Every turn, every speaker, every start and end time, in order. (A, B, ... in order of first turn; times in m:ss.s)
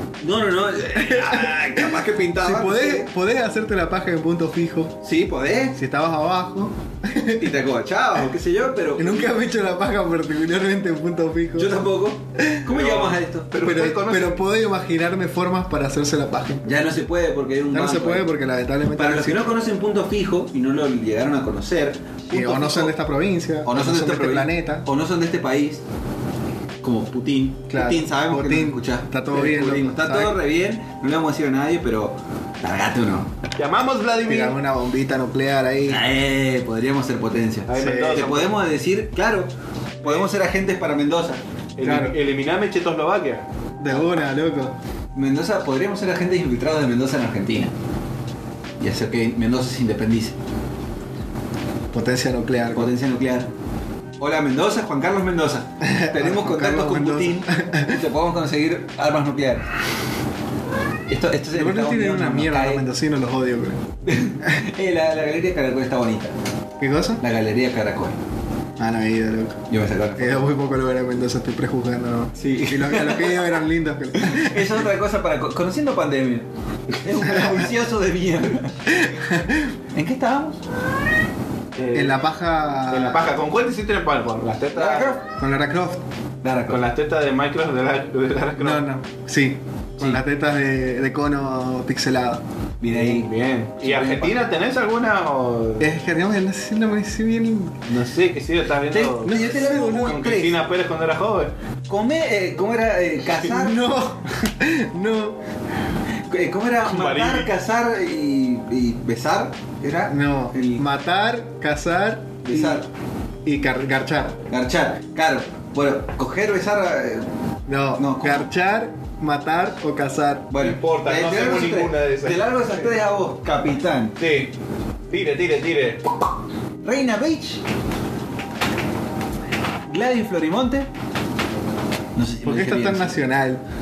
0:00.2-0:03.1 A
0:00.9-0:05.0 B
0:05.0-0:05.8 A
0:05.7-0:07.5 B
0:07.4-0:09.4 A
0:09.0-0:11.8 B
0:11.5-0:13.5 A
0:12.4-0:12.6 B
0:12.7-0:14.4 C
0:13.5-0:16.7 B
0:16.6-0:18.3 A
0:17.7-0:19.5 B
0:19.0-0:22.9 A
0:22.3-0:24.8 B
0:23.6-0:25.8 A
0:26.8-0:33.4 A
0:27.7-0:30.4 B
0:33.6-0:34.6 C
0:34.2-0:36.0 B
0:35.9-0:41.4 A
0:37.7-0:38.6 C
0:37.8-0:38.3 B
0:41.8-0:43.4 C
0:41.8-0:42.2 B
0:43.8-0:44.8 B
0:43.8-0:44.3 A
0:45.1-0:47.7 A
0:48.8-0:50.4 A
0:51.9-0:52.9 B
0:52.7-0:53.5 A
0:54.2-0:59.6 A
0:55.8-0:58.0 B
1:01.1-1:02.8 A
1:01.5-1:03.8 B
1:04.0-1:06.3 A
1:06.8-1:07.2 B
1:07.2-1:08.2 A
1:08.8-1:09.6 B
1:09.7-1:10.5 A
1:10.2-1:14.8 B
1:12.4-1:13.5 A
1:14.2-1:16.4 A
1:17.0-1:18.9 A
1:17.2-1:17.7 B
1:18.9-1:19.7 B
1:19.9-1:20.6 A
1:21.7-1:22.2 C
1:21.9-1:23.3 B
1:22.9-1:25.2 C
1:24.7-1:25.2 A
1:25.4-1:26.0 B
1:26.4-1:26.8 A
1:26.7-1:28.8 C
1:28.6-1:32.4 B
1:30.0-1:30.2 A
1:32.8-1:34.4 A
1:32.9-1:35.9 C
1:35.8-1:37.8 B
1:37.9-1:41.5 C
1:38.9-1:40.6 A
1:39.3-1:40.2 B
1:41.9-1:43.8 A
1:43.4-1:45.4 B
1:46.3-1:50.8 A
1:46.8-1:47.5 C
1:50.1-1:52.8 B
1:52.4-1:52.9 A
1:53.4-1:54.4 B
1:54.5-1:57.3 A
1:57.7-2:00.5 B
1:58.0-1:58.5 A
2:00.5-2:04.2 A
2:00.6-2:03.0 C
2:04.2-2:04.5 C
2:05.1-2:06.2 C
2:06.8-2:07.6 A
2:09.9-2:10.9 A
2:12.1-2:13.2 A
2:12.4-2:13.6 B